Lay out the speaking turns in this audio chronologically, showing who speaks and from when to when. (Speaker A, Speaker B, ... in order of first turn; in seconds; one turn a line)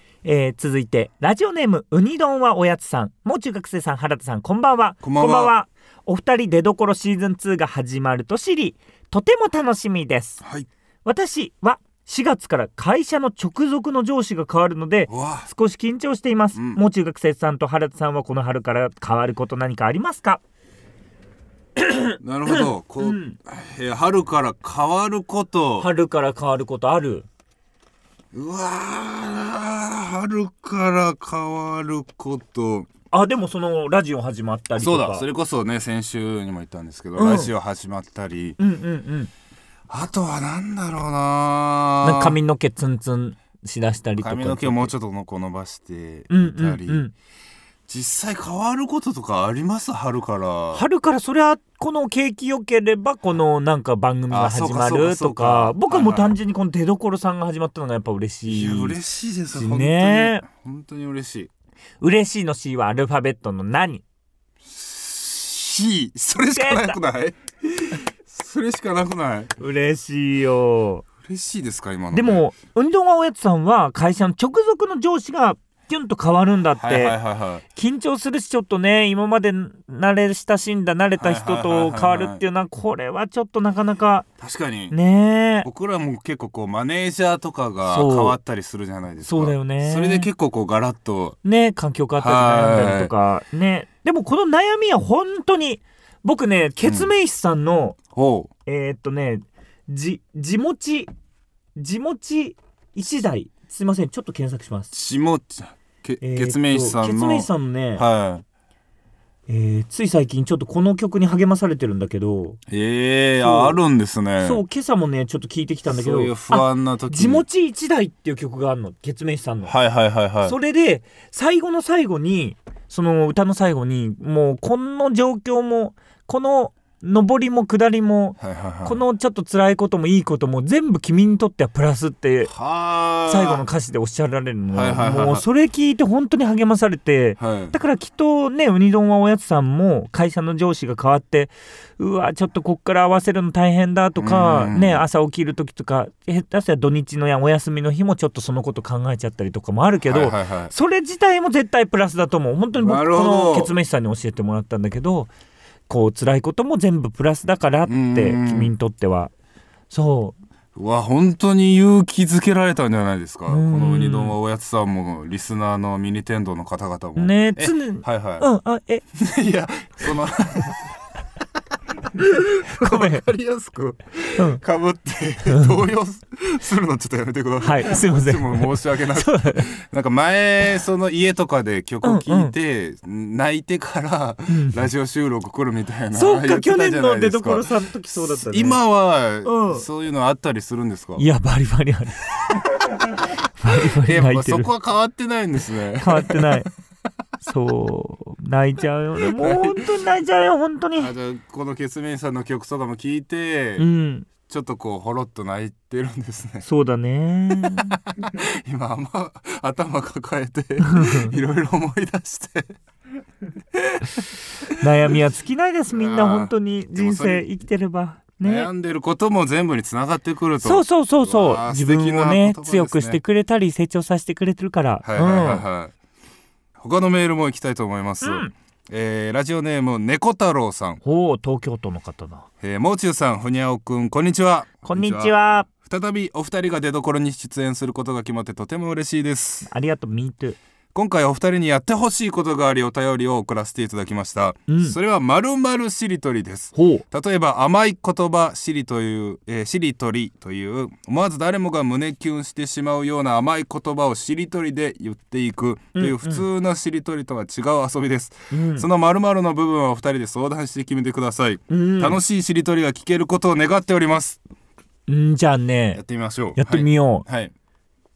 Speaker A: 0.2-10.4
Speaker B: 5.0-5.5
Speaker B: 10.4-10.7
Speaker A: 11.0-20.4
Speaker B: 15.1-15.5
Speaker B: 16.5-16.8
Speaker A: 21.8-23.4
Speaker B: 22.2-25.9
Speaker A: 25.8-27.2
Speaker B: 28.3-32.9
Speaker A: 33.1-35.2
Speaker B: 34.8-38.6
Speaker A: 37.2-37.5
Speaker A: 38.6-39.3
Speaker B: 39.9-42.4
Speaker A: 42.0-44.9
Speaker B: 44.2-47.0
Speaker A: 46.3-47.1
Speaker B: 47.9-50.8
Speaker A: 50.7-59.0
Speaker B: 54.3-56.4
Speaker B: 58.5-61.5
Speaker A: 59.5-60.4
Speaker A: 62.0-64.0
Speaker B: 64.6-69.5
Speaker A: 66.5-67.0
Speaker A: 69.6-71.0
Speaker B: 71.2-72.4
Speaker A: 72.1-77.2
Speaker B: 76.8-77.6
Speaker A: 77.7-84.3
Speaker B: 81.2-82.4
Speaker B: 84.4-85.0
Speaker A: 84.9-85.7
Speaker B: 85.6-91.4
Speaker A: 87.8-88.4
Speaker A: 89.2-90.3
Speaker A: 91.4-98.0
Speaker B: 92.2-93.1
Speaker B: 96.8-97.1
Speaker B: 98.1-98.5
Speaker A: 98.7-101.1
Speaker A: 101.8-104.9
Speaker B: 104.9-108.4
Speaker A: 106.2-108.0
Speaker A: 109.5-112.6
Speaker B: 112.7-114.6
Speaker A: 113.4-113.8
Speaker A: 114.4-119.7
Speaker B: 115.9-117.4
Speaker B: 119.7-120.5
Speaker A: 120.4-132.5
Speaker B: 128.4-129.0
Speaker B: 132.5-133.7
Speaker A: 133.3-155.3
Speaker B: 134.7-135.4
Speaker B: 137.4-137.8
Speaker B: 144.2-145.0
Speaker B: 150.0-150.7
Speaker B: 152.8-153.7
Speaker A: 155.9-159.3
Speaker B: 157.9-158.7
Speaker A: 159.9-160.4
Speaker B: 160.7-168.5
Speaker A: 163.5-164.4
Speaker A: 167.2-169.0
Speaker B: 169.1-170.9
Speaker B: 172.2-191.2
Speaker A: 172.7-173.2
Speaker A: 175.5-175.8
Speaker A: 177.6-179.7
Speaker A: 182.0-182.5
Speaker A: 184.5-184.9
Speaker A: 186.1-188.8
Speaker A: 189.4-189.8
Speaker A: 191.2-192.3
Speaker A: 193.6-194.7
Speaker B: 193.7-196.6
Speaker A: 196.0-196.7
Speaker A: 197.4-201.1
Speaker B: 199.2-199.9
Speaker B: 201.0-203.8
Speaker A: 203.8-204.3
Speaker B: 204.5-206.6
Speaker A: 206.6-208.0
Speaker B: 207.6-212.7
Speaker A: 210.8-211.3
Speaker B: 213.7-214.7
Speaker A: 214.8-218.7
Speaker B: 215.9-217.5
Speaker B: 218.4-223.2
Speaker A: 220.6-225.7
Speaker B: 225.0-225.9
Speaker B: 226.8-231.0
Speaker A: 228.2-228.5
Speaker A: 231.0-232.4
Speaker B: 232.6-239.7
Speaker A: 234.8-235.7
Speaker A: 239.7-240.6
Speaker B: 240.9-264.4
Speaker A: 244.7-244.9
Speaker A: 246.7-247.0
Speaker A: 255.9-256.4
Speaker A: 258.5-258.9
Speaker A: 261.7-262.2
Speaker A: 265.1-266.0
Speaker B: 265.9-267.5
Speaker A: 266.6-267.2